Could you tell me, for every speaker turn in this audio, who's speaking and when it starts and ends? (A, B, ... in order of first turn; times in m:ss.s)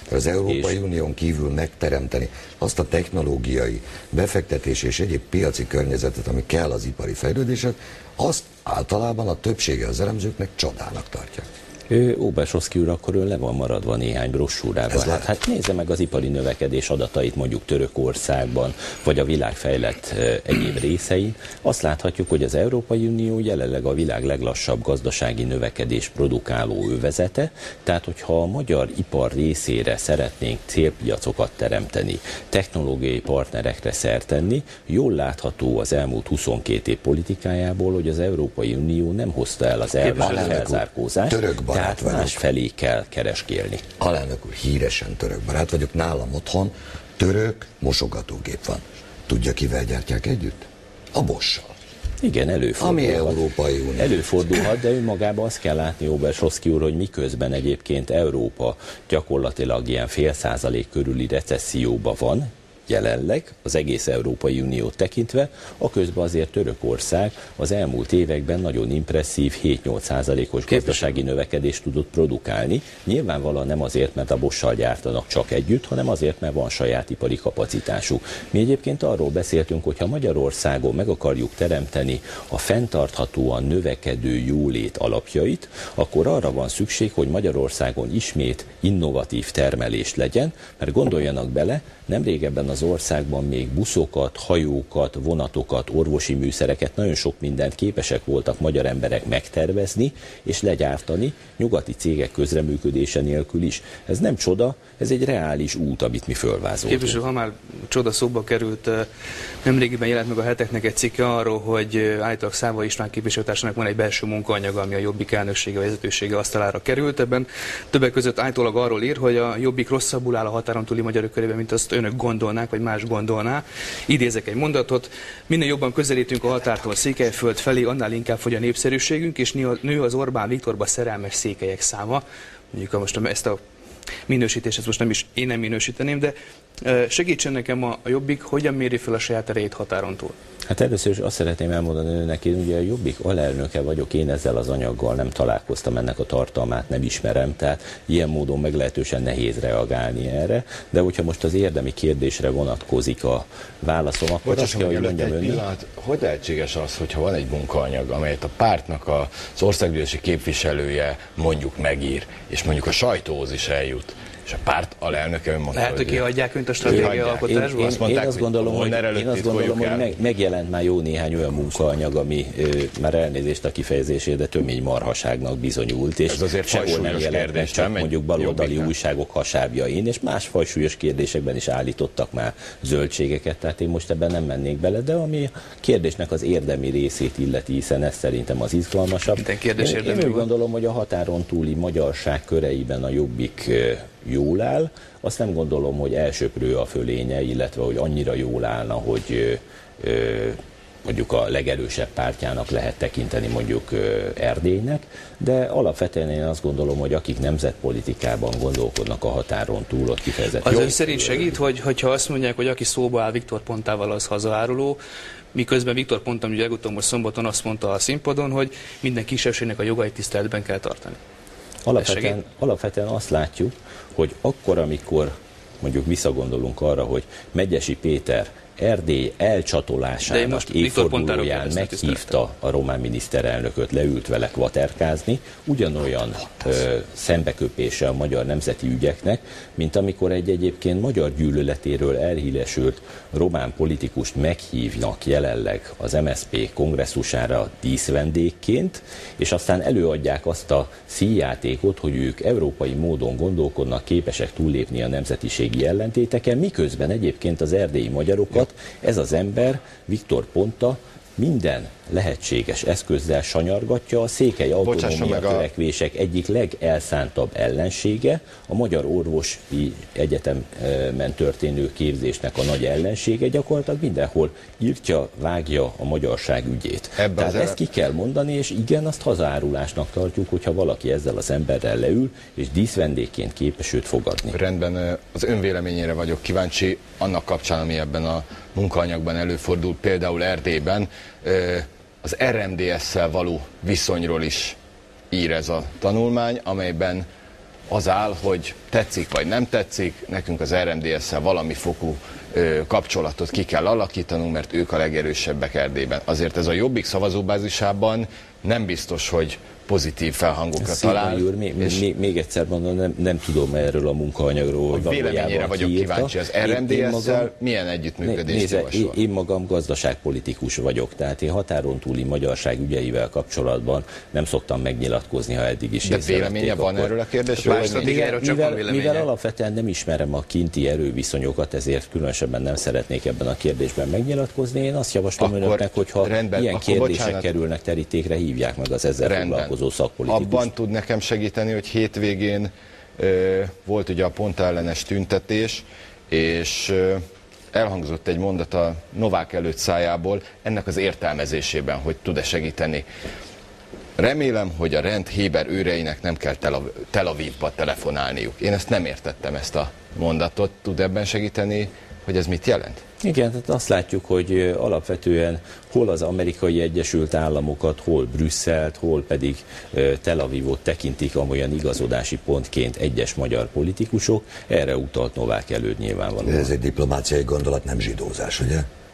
0:00.1-0:11.5 A
0:00.4-0:00.8 B
0:11.9-0:43.8 B
0:14.9-0:15.3 A
0:40.0-0:40.5 C
0:40.2-0:42.4 A
0:44.0-0:51.7 A
0:52.2-0:53.4 B
0:52.8-0:54.2 A
0:54.0-1:47.2 B
1:10.7-1:11.0 C
1:46.8-1:49.1 C
1:49.6-2:13.6 C
2:14.3-2:20.3 C
2:20.7-2:35.6 B
2:34.4-2:46.2 D
2:45.7-2:48.0 C
2:46.8-2:50.1 D
2:46.8-3:31.6 B
2:56.3-2:58.9 D
3:09.4-3:10.5 C
3:30.6-3:35.0 C
3:35.5-3:41.2 C
3:41.8-4:44.6 B
3:42.0-3:42.4 C
3:50.3-3:52.4 C
4:24.8-4:25.7 D
4:37.2-4:37.8 D
4:44.5-4:54.8 D
4:55.3-4:57.2 D
4:57.9-5:12.0 D
5:10.8-5:17.5 B
5:14.9-5:19.2 D
5:18.2-5:40.7 B
5:26.0-5:28.2 D
5:27.6-5:29.3 C
5:35.4-5:37.5 D
5:39.2-5:39.7 D
5:40.3-5:47.2 D
5:47.7-5:53.0 D
5:54.2-6:03.0 D
6:03.2-6:16.7 B
6:16.4-6:18.9 A